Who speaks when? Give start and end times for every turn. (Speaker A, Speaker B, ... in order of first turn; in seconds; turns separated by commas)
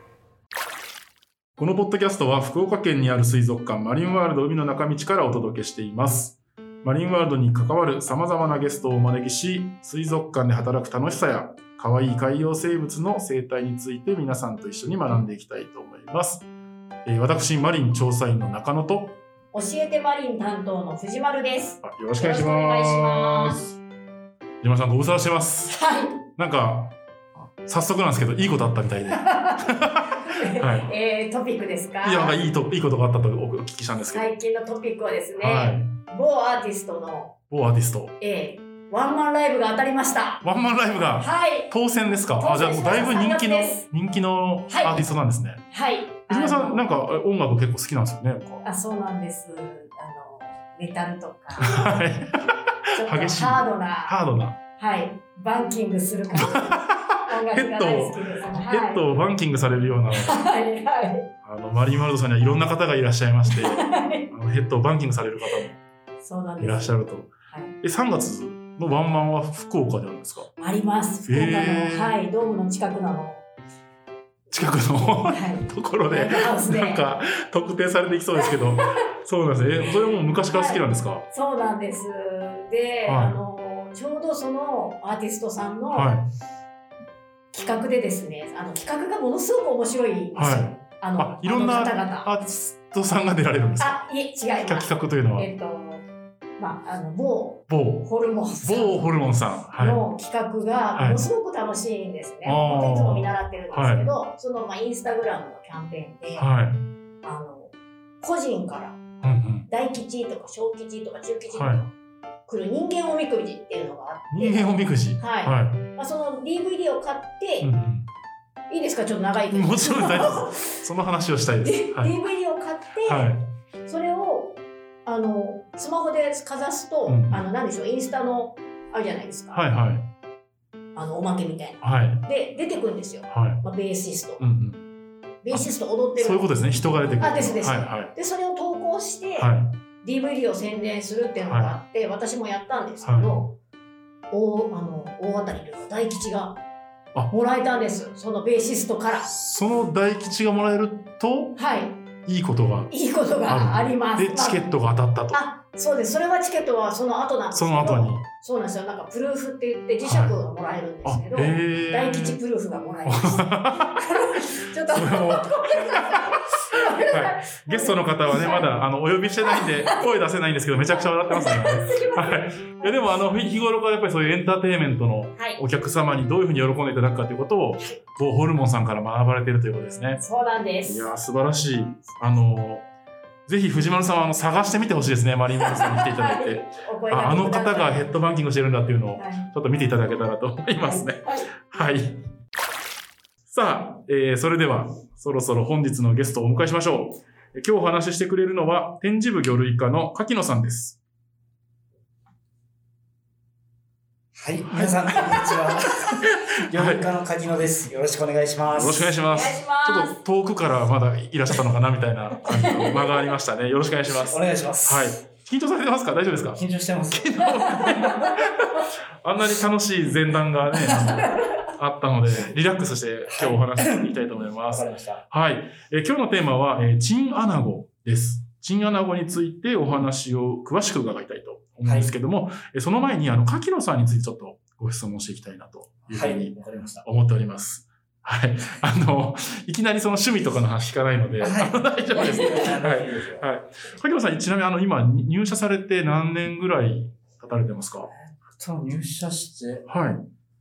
Speaker A: 1.6-16.5, Speaker A: 17.1-19.2, Speaker B: 19.5-23.7, Speaker A: 21.8-23.8, Speaker A: 24.6-25.8, Speaker B: 25.7-26.2, Speaker A: 26.4-26.9, Speaker A: 27.6-30.9, Speaker B: 29.1-32.4, Speaker A: 32.0-34.3, Speaker B: 34.1-37.4, Speaker A: 35.4-35.9, Speaker A: 37.5-38.1, Speaker B: 38.2-40.4, Speaker A: 40.4-45.6, Speaker B: 41.2-41.7, Speaker B: 42.4-43.9, Speaker B: 44.7-45.0, Speaker B: 45.7-46.8, Speaker A: 46.3-48.6, Speaker B: 48.6-52.0, Speaker A: 51.6-54.6, Speaker B: 52.9-54.2, Speaker B: 54.8-59.1, Speaker A: 56.3-60.5, Speaker B: 60.1-61.3, Speaker A: 61.4-65.8, Speaker B: 63.5-64.3, Speaker B: 65.4-65.7, Speaker B: 66.2-67.0, Speaker A: 66.6-70.5, Speaker B: 70.6-73.4, Speaker A: 71.3-72.2, Speaker A: 74.5-81.2, Speaker B: 75.3-77.0, Speaker B: 78.4-78.9, Speaker B: 80.5-86.1, Speaker A: 83.1-83.4, Speaker A: 85.9-86.3, Speaker B: 87.5-92.3, Speaker A: 90.3-94.0, Speaker B: 93.8-96.0, Speaker A: 94.6-95.5, Speaker B: 96.6-106.5, Speaker A: 97.7-100.0, Speaker A: 101.0-101.3, Speaker A: 102.4-104.1, Speaker A: 106.4-106.9, Speaker B: 107.2-109.0, Speaker A: 109.2-109.7, Speaker B: 109.7-111.9, Speaker A: 111.5-111.9, Speaker B: 112.5-117.7, Speaker A: 114.3-115.9, Speaker A: 117.6-118.1, Speaker B: 118.7-120.8, Speaker A: 119.5-122.1, Speaker B: 121.6-123.3, Speaker A: 123.0-123.4, Speaker B: 123.8-129.6, Speaker A: 127.1-127.5, Speaker A: 129.5-130.1, Speaker B: 130.9-134.4, Speaker A: 131.8-132.2, Speaker A: 133.3-133.6, Speaker A: 134.4-134.8, Speaker B: 135.4-136.5, Speaker A: 135.5-138.1, Speaker B: 137.2-143.6, Speaker A: 139.4-139.8, Speaker A: 141.4-141.8, Speaker A: 143.0-143.3, Speaker B: 144.3-146.6, Speaker B: 147.3-149.4, Speaker A: 149.3-151.6, Speaker B: 151.6-152.0, Speaker A: 152.3-152.9, Speaker B: 152.9-154.6, Speaker A: 153.4-155.4, Speaker B: 155.3-168.7, Speaker A: 157.5-158.2, Speaker A: 160.0-160.4, Speaker A: 161.1-162.4, Speaker A: 163.1-180.2, Speaker B: 169.4-170.0, Speaker B: 171.3-173.4, Speaker B: 180.2-181.1, Speaker A: 180.8-182.8, Speaker A: 183.5-192.2, Speaker B: 185.6-188.1, Speaker B: 189.2-189.5, Speaker B: 190.9-191.5, Speaker A: 193.5-201.0, Speaker C: 204.3-209.2, Speaker A: 204.6-207.1, Speaker A: 208.7-236.5, Speaker B: 209.3-210.2, Speaker B: 212.4-213.2, Speaker C: 214.1-215.2, Speaker C: 216.5-218.4, Speaker C: 223.3-225.2, Speaker C: 231.8-232.1, Speaker C: 236.1-237.1, Speaker A: 237.0-248.1, Speaker C: 241.4-243.5, Speaker C: 248.1-249.9, Speaker A: 249.9-250.3